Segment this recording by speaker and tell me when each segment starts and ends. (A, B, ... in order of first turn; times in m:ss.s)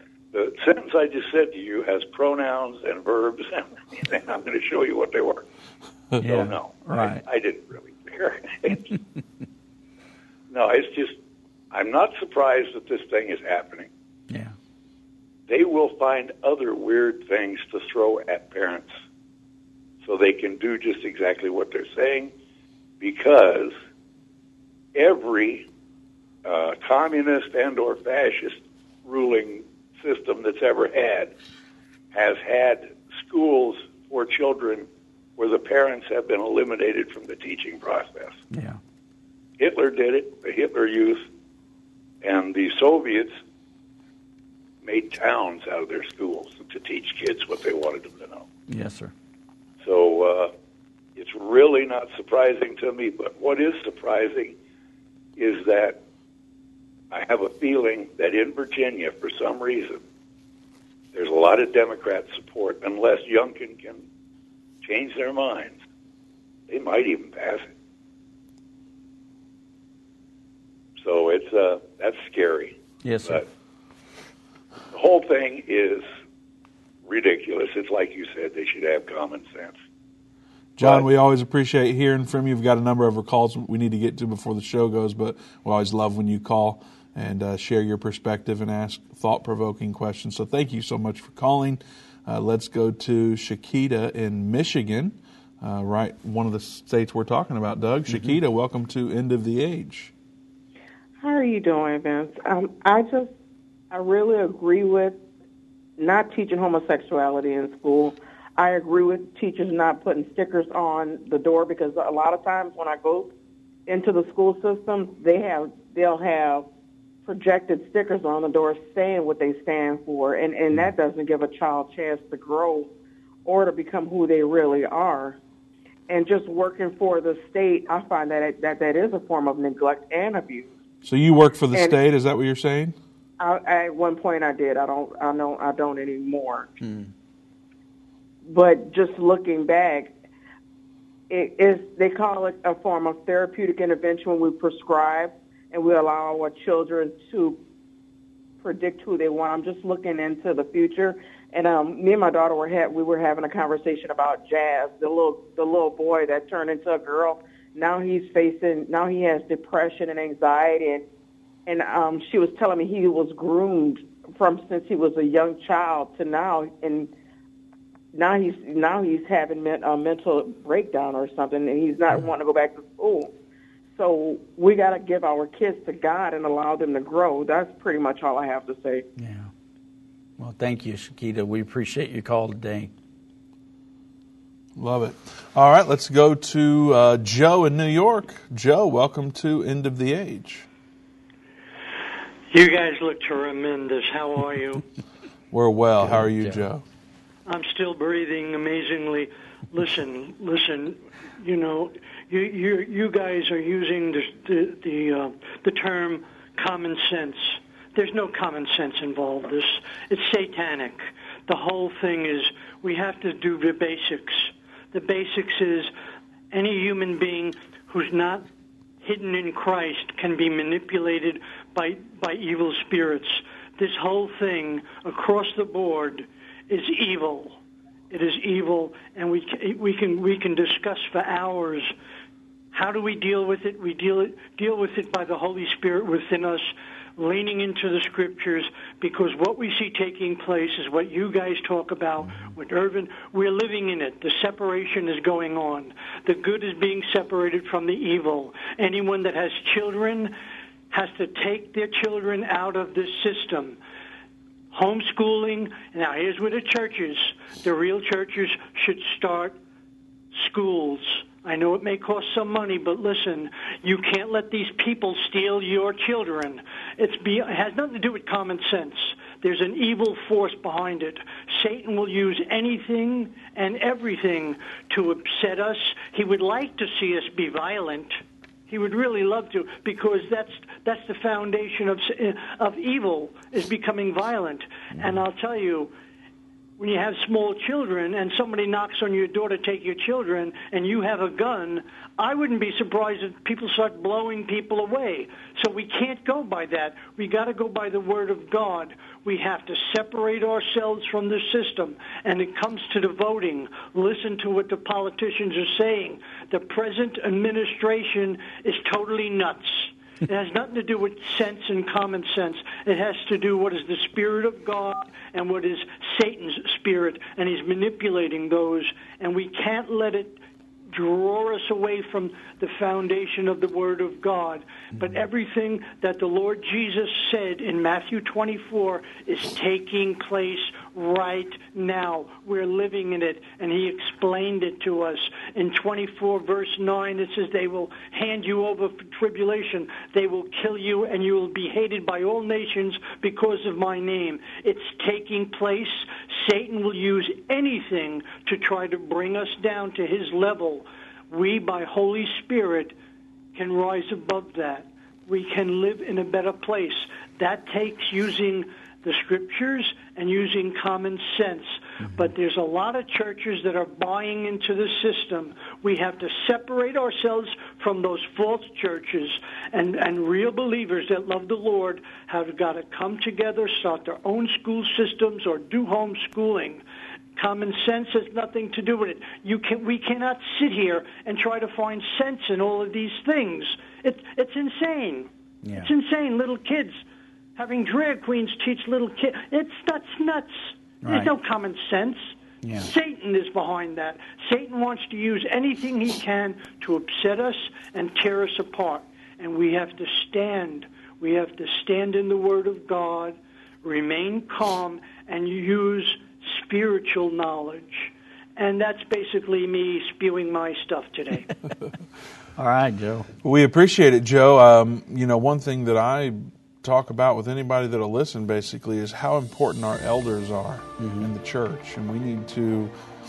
0:00.3-0:05.4 A
0:06.2-0:07.2 B
0:06.2-0:09.0 A
0:10.5-0:11.2 A
0:11.7-0:13.9 A
0:14.3-0:14.5 B
0:15.5-0:18.9 A
0:20.0-0:22.3 A
0:23.0-0:23.7 A
0:24.9-0:25.6 A
0:26.4-0:31.3 A
0:32.1-0:34.8 A
0:35.4-0:38.4 A
0:38.5-0:38.8 B
0:39.6-0:41.2 A
0:42.2-0:43.4 A
0:44.8-0:48.5 A
0:48.7-0:49.1 B
0:49.8-0:50.5 A
0:51.2-0:54.5 A
0:55.4-0:56.0 A
0:57.1-1:00.0 A
1:01.1-1:04.0 A
1:04.8-1:05.8 A
1:06.7-1:07.7 A
1:11.0-1:13.4 A
1:13.0-1:13.4 B
1:14.9-1:16.0 A
1:17.0-1:19.8 A
1:20.8-1:40.1 C
1:20.8-1:21.1 A
1:38.1-1:38.4 B
1:41.2-1:43.3 D
1:43.9-1:45.2 D
1:46.0-1:53.3 D
1:53.9-1:56.6 D
1:57.2-2:02.9 D
2:03.4-2:05.4 D
2:06.1-2:10.7 D
2:11.0-2:12.9 C
2:13.4-2:16.8 D
2:16.8-2:17.1 B
2:18.4-2:20.1 D
2:21.3-2:27.6 D
2:28.6-2:41.0 D
2:41.6-2:47.1 D
2:48.1-2:53.3 D
2:53.9-2:59.0 D
2:59.2-2:59.5 B
3:00.4-3:02.9 B
3:04.8-3:10.7 C
3:12.5-3:14.8 E
3:15.5-3:16.8 C
3:16.0-3:16.6 B
3:17.4-3:35.9 E
3:36.5-3:38.4 E
3:39.0-3:47.6 E
3:48.1-3:51.9 E
3:52.7-4:10.3 E
4:02.2-4:02.5 B
4:10.9-4:13.8 E
4:14.7-4:19.6 E
4:20.3-4:45.9 E
4:44.9-4:45.2 B
4:46.8-5:20.4 E
5:20.9-5:52.9 E
5:53.5-6:16.8 E
6:02.0-6:02.3 B
6:17.4-6:25.3 E
6:25.6-6:25.9 B
6:25.8-6:27.0 E
6:27.6-6:51.5 E
6:31.0-6:31.3 B
6:32.6-6:32.9 B
6:52.6-6:53.3 B
6:53.4-7:02.9 C
7:01.0-7:01.3 B